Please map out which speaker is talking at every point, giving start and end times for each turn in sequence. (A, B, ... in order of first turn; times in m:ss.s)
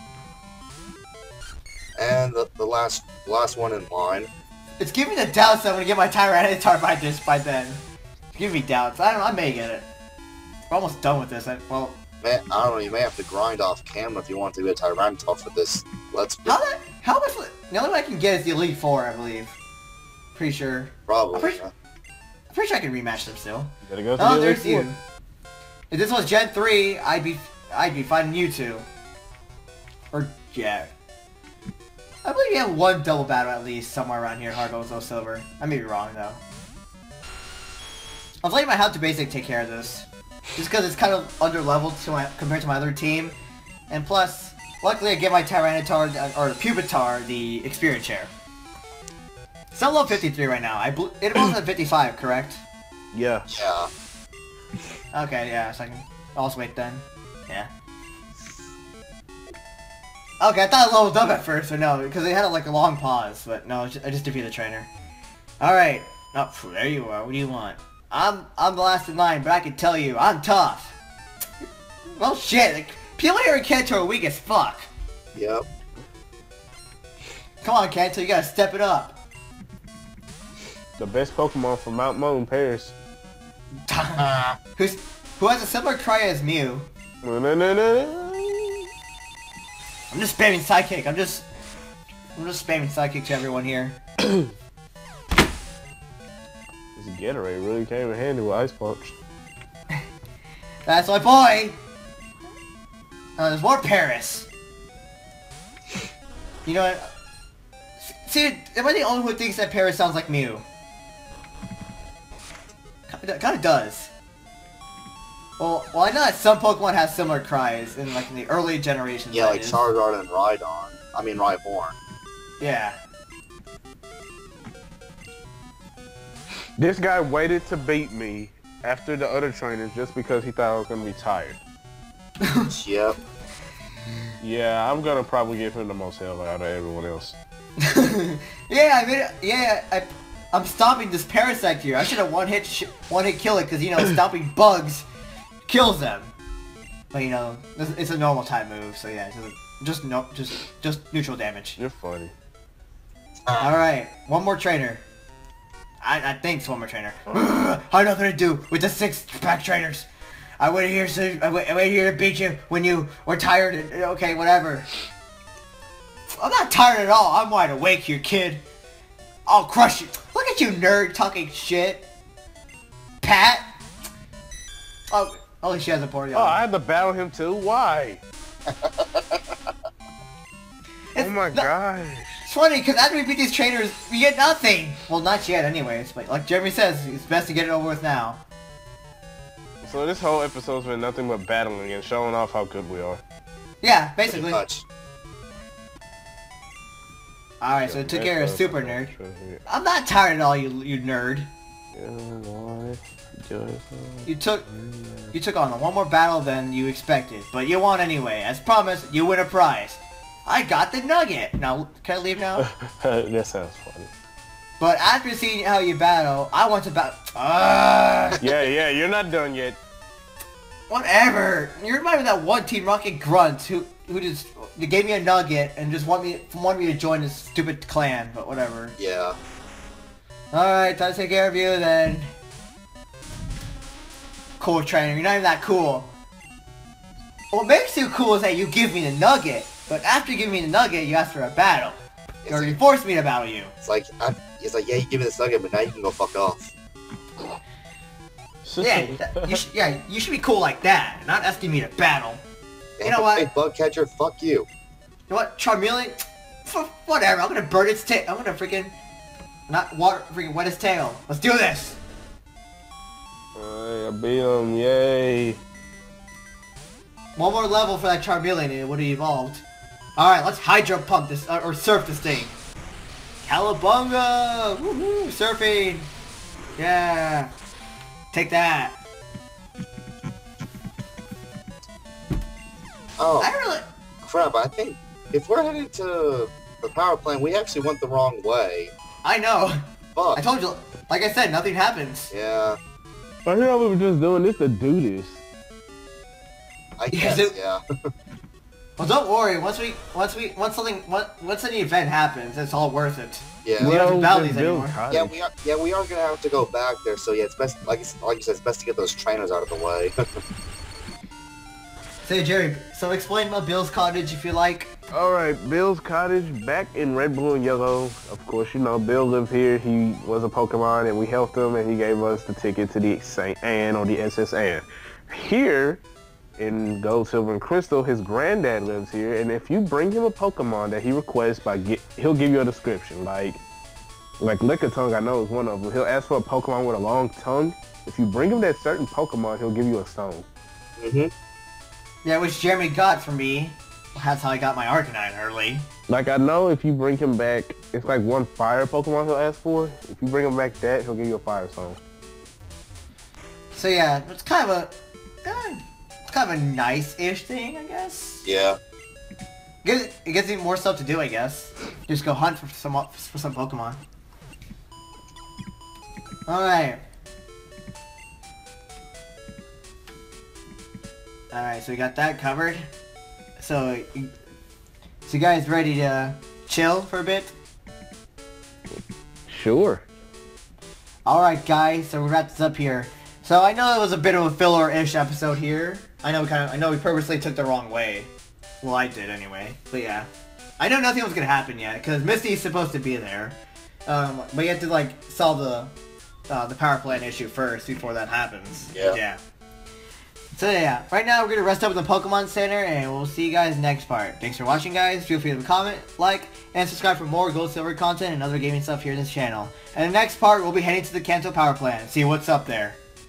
0:02.0-0:04.3 A
0:04.8-0:09.9 B
0:10.7-0:12.0 B
0:12.2-0:16.6 A
0:16.5-0:19.6 B
0:20.4-0:21.6 B
0:21.1-0:21.7 A
0:22.5-0:25.0 B
0:23.8-0:24.9 C
0:25.9-0:28.8 B
0:30.1-0:30.9 B
0:32.2-0:36.4 B
0:38.4-0:43.4 B
0:43.9-0:48.3 B
0:49.7-0:52.6 B
0:53.1-0:53.5 C
0:53.5-0:53.9 A
0:55.1-0:57.7 B
1:00.4-1:04.9 B
1:05.6-1:11.0 B
1:12.2-1:14.9 B
1:15.4-1:15.6 A
1:17.6-1:19.2 B
1:21.0-1:23.0 C
1:23.9-1:26.9 B
1:24.2-1:24.6 A
1:27.2-1:28.9 C
1:30.1-1:31.5 B
1:32.4-1:34.0 B
1:37.0-1:39.2 C
1:40.9-1:41.8 B
1:43.4-1:44.5 B
1:46.7-1:47.1 B
1:48.0-1:50.6 B
1:53.1-1:54.1 B
1:55.6-1:59.9 B
1:59.3-2:02.0 A
2:02.6-2:03.0 B
2:06.8-2:11.6 C
2:12.4-2:12.7 B
2:12.7-2:13.2 A
2:14.4-2:17.4 C
2:17.8-2:25.1 B
2:25.7-2:26.3 B
2:27.1-2:31.8 B
2:31.8-2:32.3 C
2:33.5-2:33.7 A
2:33.6-2:35.0 B
2:36.0-2:40.1 B
2:40.6-2:44.9 B
2:46.3-2:48.6 B
2:49.5-2:52.1 B
2:53.2-2:53.6 B
2:55.1-2:56.6 B
2:56.3-2:58.2 C
2:58.8-2:59.4 A
3:01.1-3:01.7 B
3:01.2-3:02.4 C
3:02.4-3:08.4 B
3:09.8-3:13.2 C
3:13.8-3:14.6 B
3:14.3-3:14.8 A
3:17.6-3:19.1 B
3:17.8-3:19.6 C
3:19.7-3:21.5 B
3:21.9-3:25.4 C
3:24.3-3:24.7 B
3:25.3-3:32.7 B
3:32.6-3:34.1 C
3:34.8-3:38.4 B
3:38.4-3:39.8 C
3:40.9-3:49.0 B
3:49.0-3:49.4 A
3:50.5-3:52.3 B
3:54.6-3:56.1 B
3:57.5-4:02.0 B
4:02.4-4:02.8 A
4:02.5-4:03.7 B
4:03.8-4:06.7 A
4:08.6-4:09.6 C
4:08.8-4:12.4 B
4:13.0-4:14.7 A
4:13.0-4:13.5 B
4:15.3-4:18.9 B
4:19.7-4:22.0 B
4:23.6-4:25.6 C
4:27.4-4:29.6 B
4:30.2-4:32.6 B
4:33.4-4:36.1 B
4:36.8-4:37.5 B
4:38.3-4:39.0 B
4:43.2-4:43.5 A
4:43.4-4:43.8 B
4:44.2-4:48.9 A
4:49.2-4:49.8 B
4:50.2-4:50.5 A
4:50.4-4:52.3 B
4:52.3-4:52.8 A
4:53.4-4:55.4 C
4:57.0-4:57.8 A
4:57.1-4:57.6 B
4:59.0-5:05.0 B
5:03.6-5:04.0 A
5:03.8-5:05.4 C
5:05.1-5:10.2 A
5:12.2-5:14.9 B
5:15.1-5:26.0 C
5:26.6-5:33.6 C
5:34.4-5:40.4 C
5:41.0-5:41.3 A
5:42.2-5:45.9 B
5:46.1-5:52.0 C
5:53.7-5:58.5 B
5:58.4-5:58.8 A
5:59.8-6:04.0 B
6:06.5-6:07.0 B
6:11.5-6:12.9 B
6:13.6-6:14.3 B
6:15.3-6:17.5 B
6:19.5-6:20.0 C
6:21.3-6:30.3 B
6:30.8-6:35.9 B
6:36.5-6:39.4 B
6:38.9-6:39.2 A
6:40.6-6:53.0 B